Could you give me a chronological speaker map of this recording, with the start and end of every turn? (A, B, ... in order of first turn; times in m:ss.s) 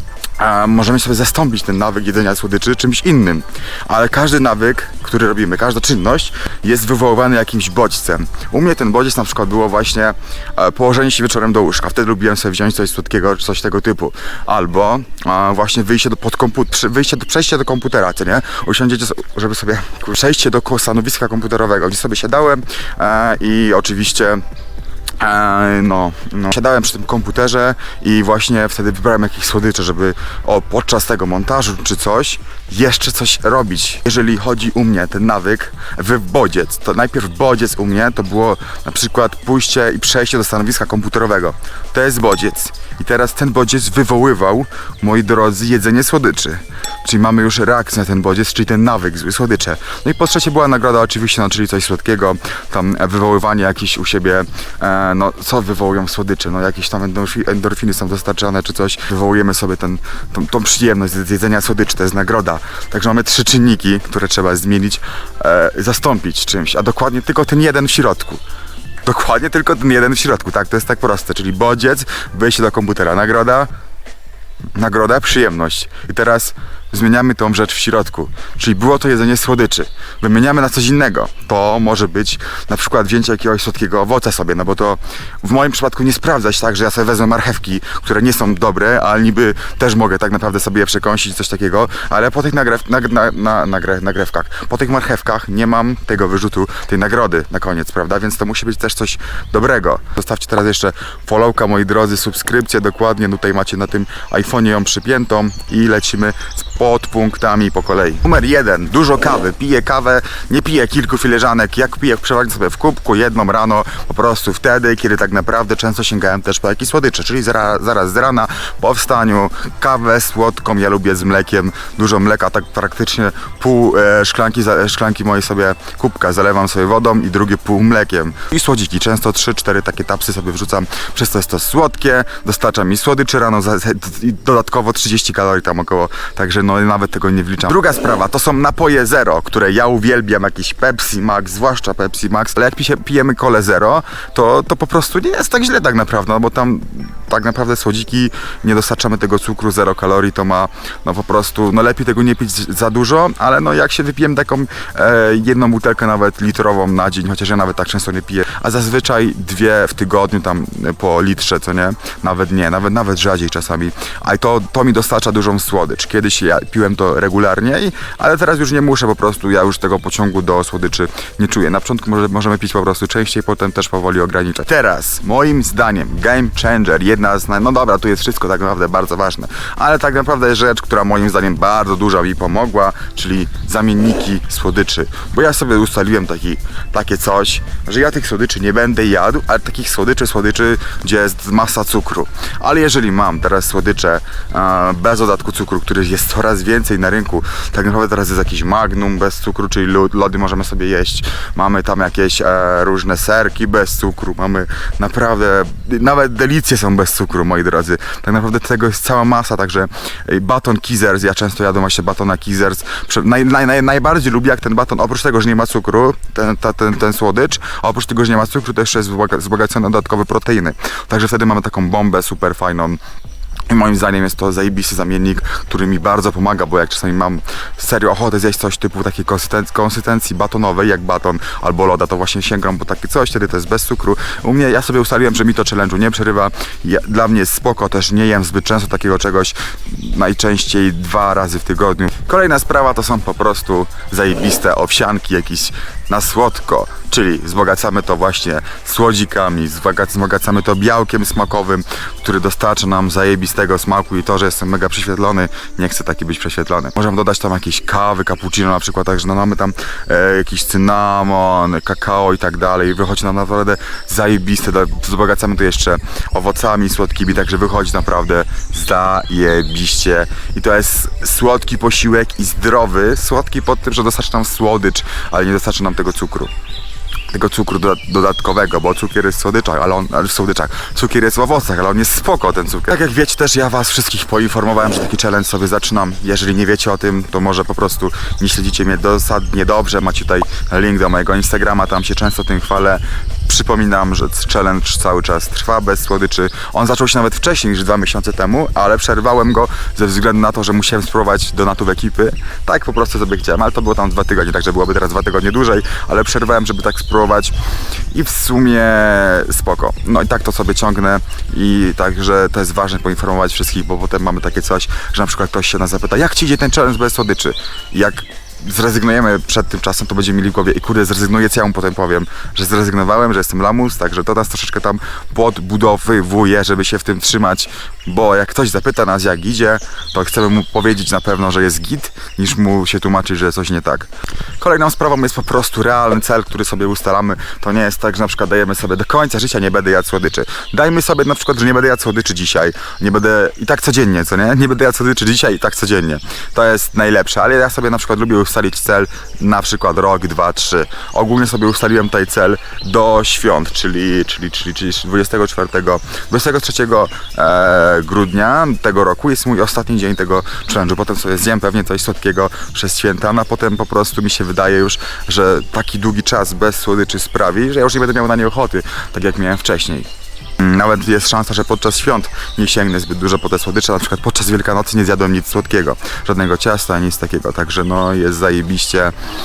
0:00.4-0:24.4 A
0:25.2-1:08.4 A
1:09.0-1:13.7 A
1:14.7-3:43.0 A
3:43.7-4:36.5 A
4:37.3-5:07.5 A
5:08.1-5:34.1 A
5:34.6-6:19.1 A